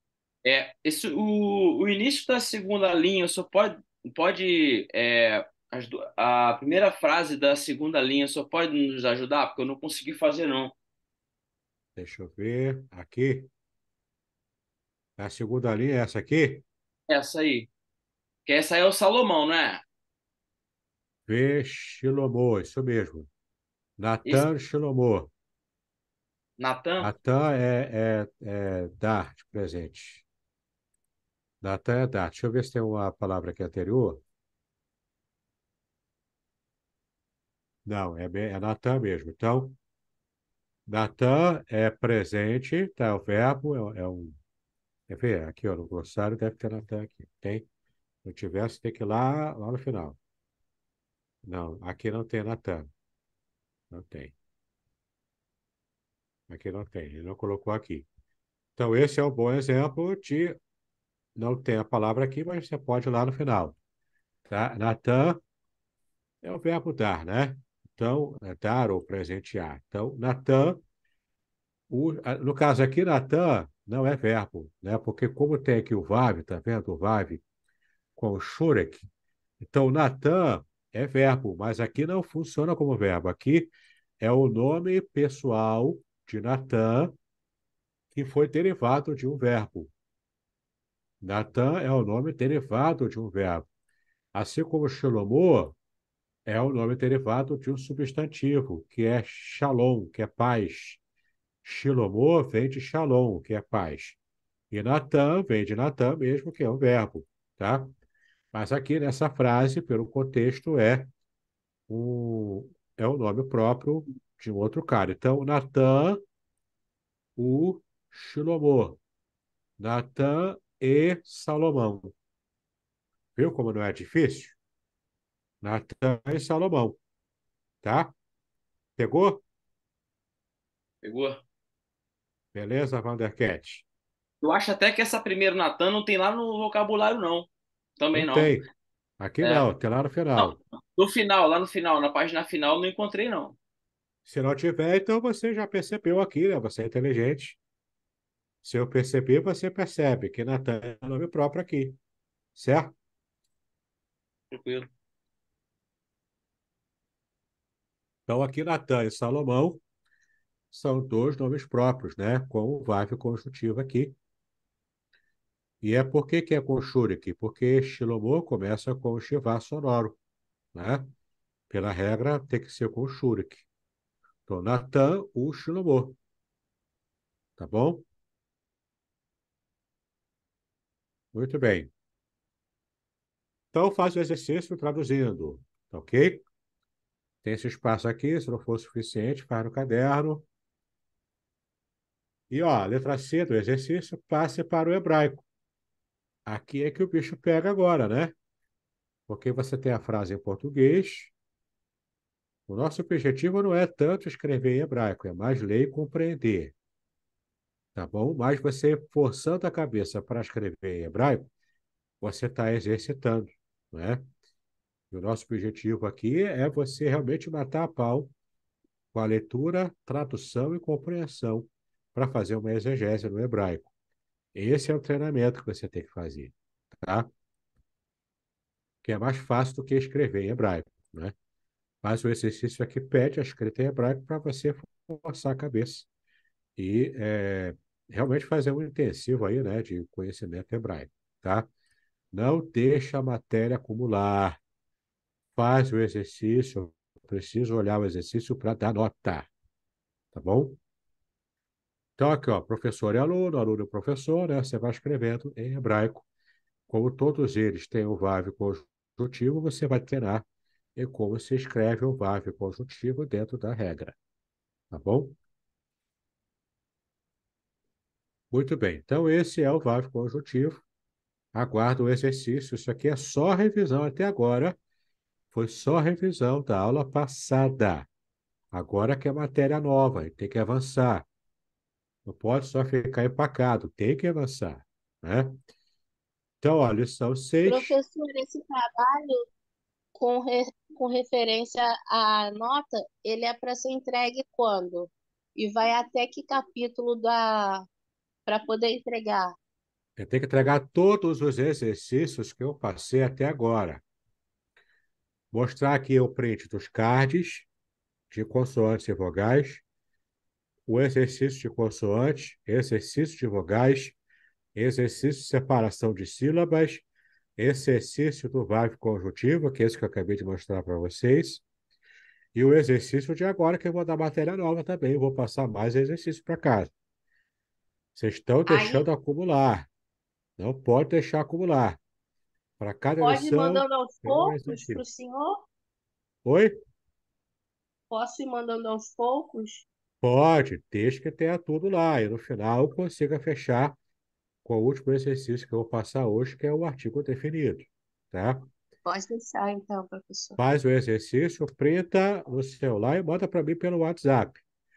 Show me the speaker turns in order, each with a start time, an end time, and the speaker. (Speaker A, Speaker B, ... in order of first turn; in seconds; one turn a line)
Speaker A: 0.4-10.7
Speaker B: 11.9-13.5
Speaker B: 15.2-16.6
Speaker A: 17.1-17.7
Speaker A: 18.4-19.8
Speaker B: 21.3-23.3
Speaker B: 24.0-25.3
Speaker A: 26.6-27.1
Speaker B: 27.0-30.2
Speaker B: 31.6-34.2
Speaker B: 37.8-39.8
Speaker B: 40.9-44.4
Speaker B: 45.1-47.6
Speaker B: 48.2-50.2
Speaker B: 51.4-52.9
Speaker B: 53.9-54.3
Speaker B: 56.5-58.1
Speaker B: 58.8-60.6
Speaker B: 61.4-63.8
Speaker B: 64.5-65.4
Speaker B: 66.4-70.8
Speaker B: 71.9-77.4
Speaker B: 78.2-79.1
Speaker B: 79.6-87.1
Speaker B: 88.1-89.9
Speaker B: 91.2-93.7
Speaker B: 94.3-95.8
Speaker B: 96.5-101.0
Speaker B: 101.6-104.2
Speaker B: 104.7-107.9
Speaker B: 108.5-111.1
Speaker B: 111.9-116.2
Speaker B: 117.4-119.0
Speaker B: 119.8-122.1
Speaker B: 123.3-124.6
Speaker B: 125.6-127.0
Speaker B: 127.8-128.1
Speaker B: 129.0-129.4
Speaker A: 131.0-131.4
Speaker B: 132.5-133.8
Speaker A: 134.4-138.6
Speaker B: 138.1-138.6
Speaker B: 139.2-140.6
Speaker A: 139.4-139.7
Speaker A: 140.4-143.6
Speaker B: 144.3-147.6
Speaker B: 148.6-152.0
Speaker B: 152.6-152.9
Speaker A: 154.5-154.9
Speaker B: 158.3-159.8
Speaker B: 160.7-164.1
Speaker B: 165.8-170.2
Speaker B: 170.7-171.1
Speaker B: 171.7-173.6
Speaker B: 174.5-176.2
Speaker B: 177.6-178.1
Speaker B: 181.3-181.9
Speaker B: 183.7-186.4
Speaker B: 187.4-190.4
Speaker B: 192.5-195.4
Speaker B: 196.4-198.3
Speaker B: 199.3-201.3
Speaker B: 202.7-206.7
Speaker B: 207.9-211.5
Speaker B: 212.2-214.3
Speaker B: 215.1-218.3
Speaker B: 219.1-223.9
Speaker B: 224.6-227.3
Speaker B: 229.0-231.3
Speaker B: 232.0-236.1
Speaker B: 236.8-241.7
Speaker B: 242.3-244.6
Speaker B: 245.6-249.5
Speaker B: 250.3-250.8
Speaker B: 252.2-256.2
Speaker B: 256.9-260.4
Speaker B: 260.9-264.1
Speaker B: 264.9-265.4
Speaker B: 268.5-270.8
Speaker B: 271.5-274.8
Speaker B: 275.5-278.1
Speaker B: 278.7-281.3
Speaker B: 282.3-285.6
Speaker B: 286.6-288.0
Speaker C: 287.6-289.4
Speaker C: 290.1-297.9
Speaker C: 298.5-299.5
Speaker B: 300.2-304.0
Speaker B: 305.5-307.7
Speaker B: 308.3-309.8
Speaker B: 310.9-314.1
Speaker B: 314.7-317.1
Speaker B: 317.6-321.6
Speaker B: 322.6-326.9
Speaker B: 328.1-329.9
Speaker C: 328.6-329.1
Speaker B: 330.6-332.0
Speaker B: 332.8-335.0
Speaker C: 333.2-335.6
Speaker B: 336.4-336.8
Speaker C: 338.1-339.8
Speaker B: 340.2-343.9
Speaker B: 344.6-348.7
Speaker C: 349.1-350.6
Speaker B: 350.6-354.6